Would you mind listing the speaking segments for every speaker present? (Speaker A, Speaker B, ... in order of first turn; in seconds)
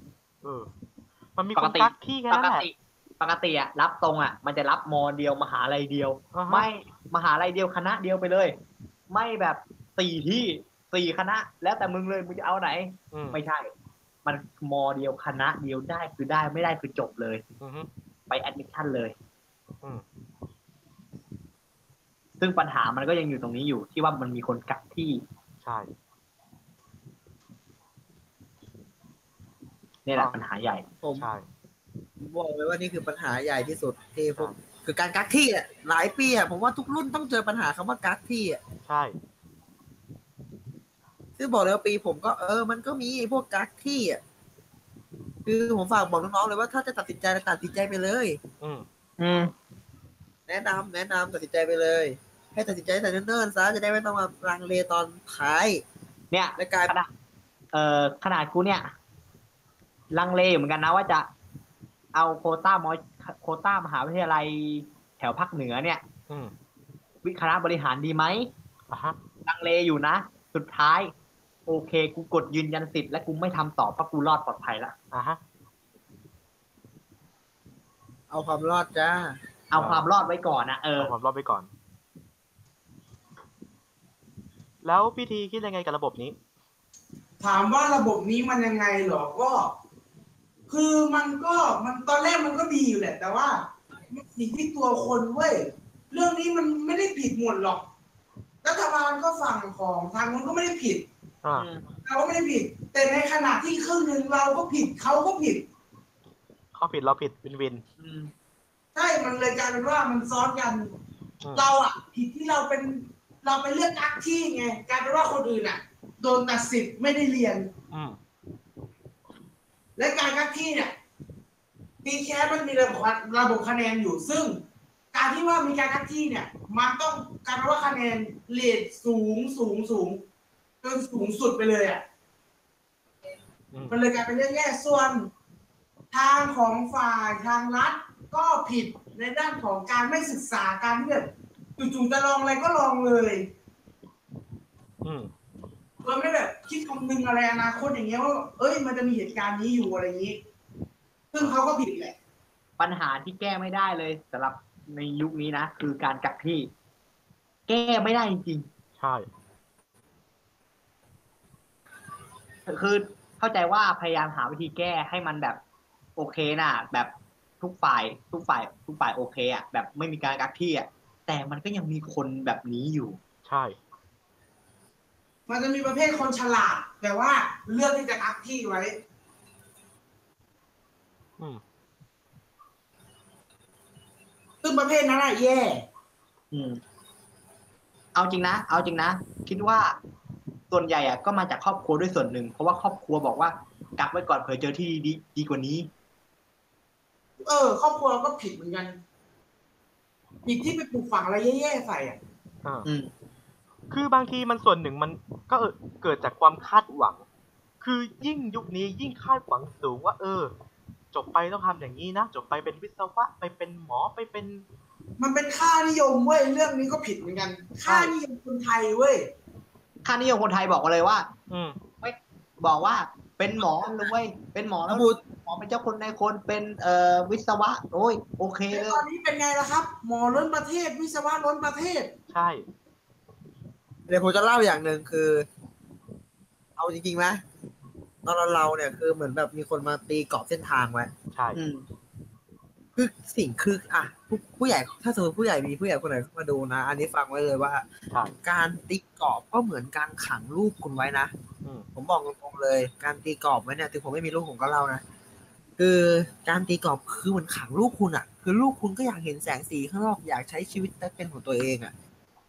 Speaker A: 0.4-0.7, 1.4-2.7, 6.3-6.7, 13.1-13.4, 17.6-17.9, 25.6-25.9, 31.2-31.4, 38.9-39.2, 48.6-48.9, 66.3-66.5, 68.9-69.2, 75.1-75.4, 79.8-80.0, 81.0-81.7, 84.8-86.4, 106.8-107.8, 111.4-111.7, 117.9-118.2, 133.7-134.0, 145.0-145.3, 159.0-159.3, 173.4-173.8, 203.9-207.2, 207.8-210.5, 211.1-214.7, 221.5-221.8, 232.3-232.7, 241.3-241.6
Speaker B: 1.6-8.6, 9.1-13.7, 14.2-17.4, 18.3-19.1, 22.4-25.2, 30.1-30.9, 49.2-49.5, 56.3-57.1, 57.7-58.9, 60.1-61.3, 62.1-66.0, 67.2-68.5, 69.5-71.1, 71.7-75.0, 79.7-81.1, 101.5-101.9, 108.0-108.3, 152.8-156.7, 157.7-158.7, 162.7-165.6, 166.2-173.2, 186.5-186.8, 188.2-190.0, 190.7-195.9, 220.1-221.3, 222.0-229.0, 241.6-241.9
Speaker C: 31.0-31.3, 32.2-38.6, 41.4-44.2, 45.5-48.4, 50.5-55.8, 56.6-56.9, 78.3-79.4, 224.9-225.2, 234.1-235.5, 236.8-237.4, 238.2-241.1, 243.0-247.8, 248.4-251.3, 251.9-255.0, 255.8-261.9
Speaker D: 87.4-89.7, 90.7-97.8, 98.6-101.1, 102.1-105.7, 109.0-110.9, 111.5-117.7, 120.0-120.9, 122.0-124.6, 125.1-130.2, 130.8-132.0, 133.9-135.3, 136.1-143.4, 146.0-150.4, 151.3-152.2, 175.5-178.9, 184.6-185.8, 197.4-199.0, 200.5-202.2, 215.2-219.3, 228.7-232.1